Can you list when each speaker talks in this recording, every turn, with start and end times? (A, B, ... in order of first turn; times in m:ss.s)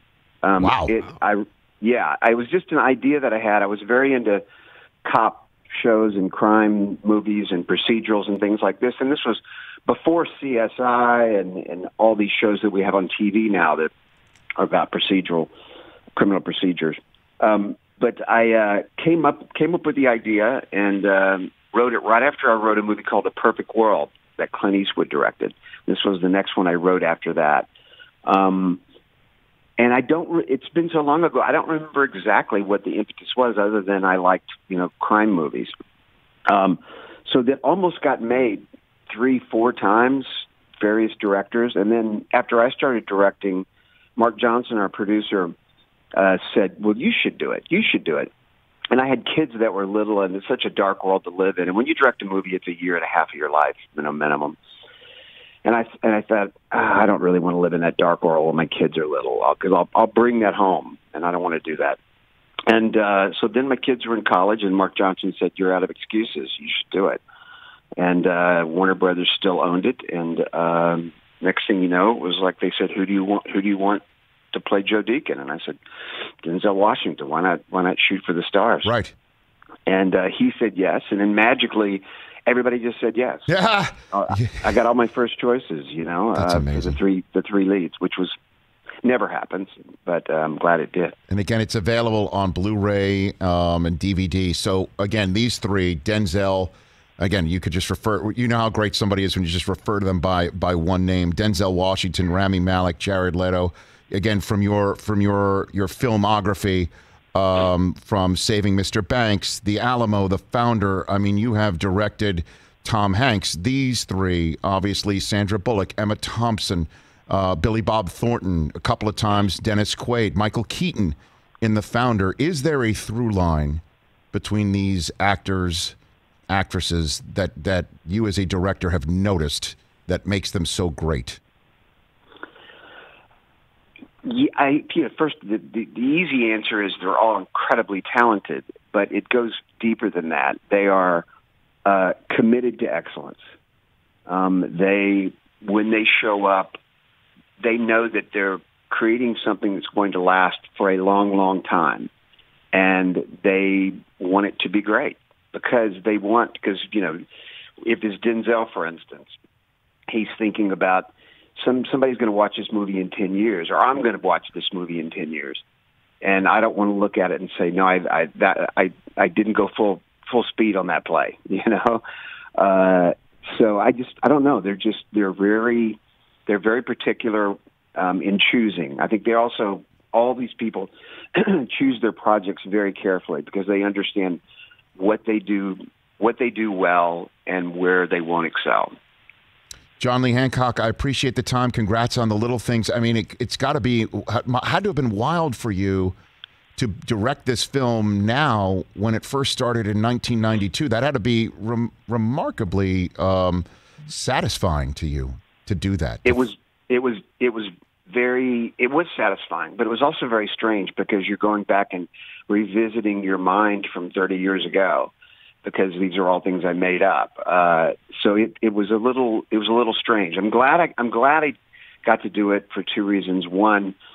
0:00.4-0:04.4 A
0:00.6-0:01.0 B
0:05.0-0:13.9 A
0:14.6-0:15.5 A
0:16.2-0:27.7 A
0:28.2-0:28.8 A
0:29.8-0:35.7 A
0:36.5-0:45.5 A
0:46.1-0:48.3 A
0:48.9-0:54.6 A
0:55.6-1:02.0 A
1:02.7-1:07.2 A
1:08.0-1:14.0 A
1:14.5-1:15.8 A
1:16.4-1:18.9 A
1:18.8-1:19.1 B
1:19.8-1:23.5 A
1:23.5-1:24.6 B
1:24.1-1:28.3 A
1:26.4-1:27.0 B
1:29.0-1:31.1 A
1:31.3-2:03.8 B
2:04.3-2:06.0 B
2:06.5-2:11.4 B
2:14.2-2:21.2 A
2:21.8-2:23.4 A
2:24.3-2:26.8 A
2:27.6-2:32.1 A
2:32.7-2:37.2 A
2:37.8-2:39.3 A
2:40.1-2:45.6 A
2:46.2-2:52.0 A
2:52.5-3:04.4 A
3:05.0-3:08.9 A
3:10.0-3:16.1 B
3:16.8-3:26.4 B
3:26.2-3:35.1 A
3:35.6-3:44.0 A